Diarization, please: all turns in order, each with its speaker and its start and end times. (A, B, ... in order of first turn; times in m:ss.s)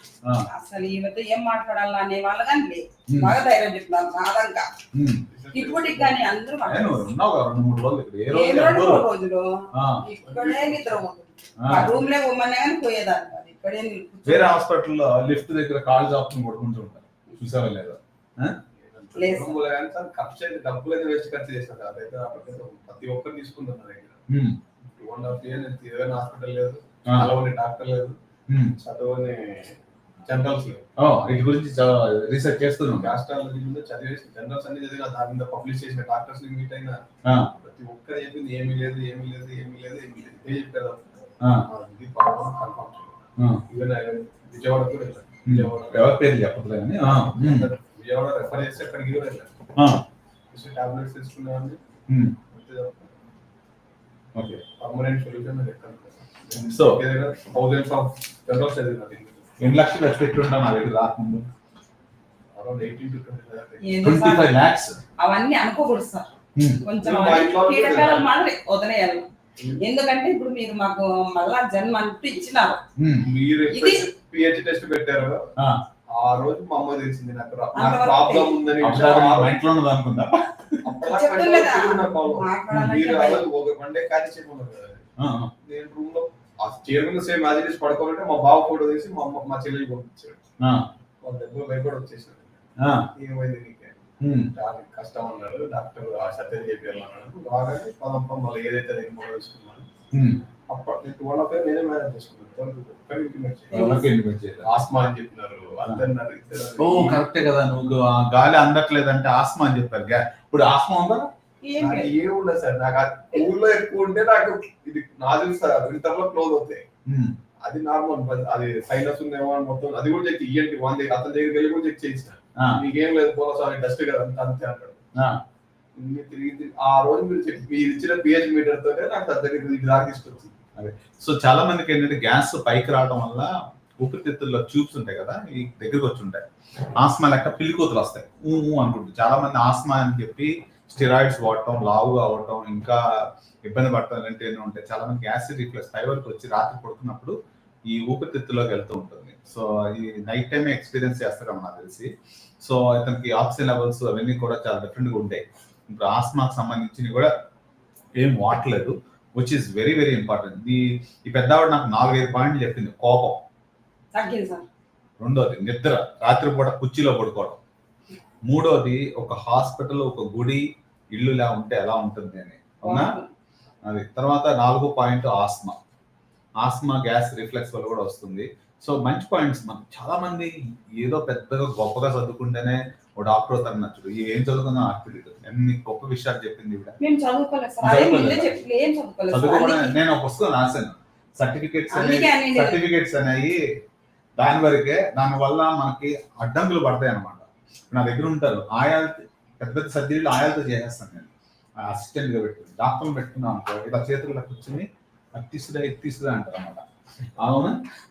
0:00.5-0:04.7 A
0:03.1-0:03.4 B
0:04.9-0:05.2 B
0:05.3-0:06.2 C
0:05.5-0:07.1 A
0:06.7-0:09.1 B
0:08.3-0:14.6 A
0:09.7-0:10.0 B
0:10.2-0:11.0 C
0:11.6-0:11.9 B
0:14.2-0:18.6 B
0:18.8-0:24.2 C
0:19.1-0:19.6 A
0:24.3-0:24.6 B
0:24.8-0:28.2 C
0:28.5-0:28.8 B
0:28.8-0:30.8 C
0:31.0-0:33.2 B
0:33.0-0:46.1 C
0:37.2-0:37.5 B
0:45.5-0:47.7 B
0:47.0-0:49.5 C
0:49.8-0:50.0 B
0:50.5-0:51.8 C
0:52.1-0:52.4 B
0:52.5-0:53.1 C
0:54.3-0:54.6 B
0:54.8-0:59.5 C
0:56.6-0:57.0 B
0:59.6-1:01.5 B
1:02.5-1:03.8 C
1:03.8-1:04.6 A
1:04.0-1:05.0 B
1:05.2-1:12.8 A
1:06.6-1:06.8 B
1:07.0-1:08.3 C
1:09.6-1:09.8 C
1:13.0-1:13.3 B
1:13.2-1:15.5 C
1:13.7-1:14.0 A
1:16.1-1:19.6 C
1:17.7-1:18.7 A
1:18.8-1:20.9 B
1:20.8-1:25.0 C
1:21.0-1:23.5 A
1:22.7-1:23.0 B
1:25.2-1:25.5 B
1:25.6-1:30.4 C
1:30.6-1:30.8 B
1:31.2-1:32.6 C
1:32.8-1:33.1 B
1:33.1-1:39.9 C
1:34.2-1:34.5 B
1:40.1-1:40.4 B
1:40.7-1:44.0 C
1:43.7-1:44.7 B
1:43.7-1:44.0 A
1:44.6-1:47.2 C
1:46.8-1:51.3 B
1:51.6-1:52.1 A
1:51.8-1:56.8 C
1:57.1-1:57.3 B
1:57.6-2:05.0 C
2:02.6-2:02.8 B
2:06.0-2:10.5 C
2:10.8-2:16.4 B
2:17.0-2:27.3 B
2:27.9-2:32.1 B
2:32.6-2:37.3 B
2:38.2-2:43.4 B
2:44.1-2:44.6 A
2:45.2-2:47.6 B
2:48.5-2:53.1 B
2:52.8-2:53.3 A
2:53.8-2:55.8 B
2:56.6-3:07.0 B
3:07.0-3:10.0 A
3:07.8-3:08.6 B
3:09.3-3:13.6 B
3:11.9-3:12.8 A
3:14.4-3:26.8 B
3:27.4-3:27.8 B